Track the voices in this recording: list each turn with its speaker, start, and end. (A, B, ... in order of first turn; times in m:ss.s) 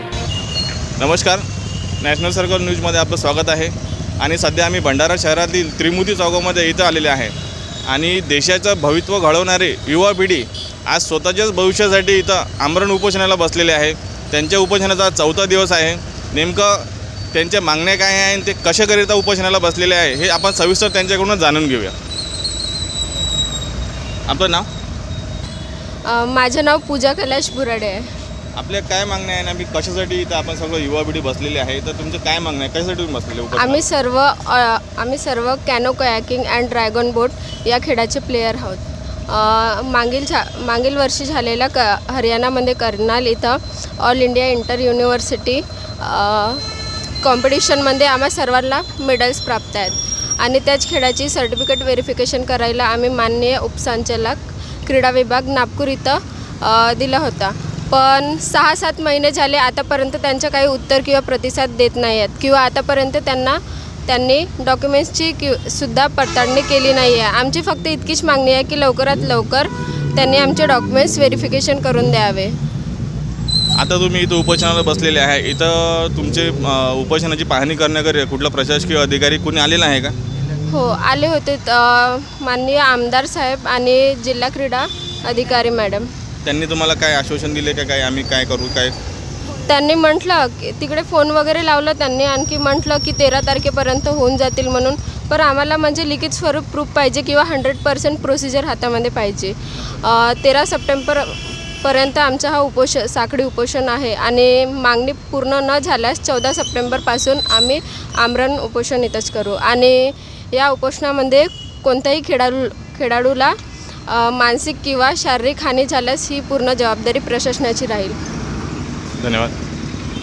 0:01.0-0:01.4 A
0:02.0-0:07.3 A
0:07.9-0:21.9 A
0:24.3-0:24.7 A
0:26.0-0:28.1 B
0:28.6-0:33.9 A
0:33.5-0:46.6 B
0:47.2-1:12.6 B
1:13.8-1:20.1 A
1:20.7-1:26.1 B
1:26.4-1:28.9 A
1:29.7-1:53.5 B
1:54.1-1:58.2 B
1:59.2-1:59.5 A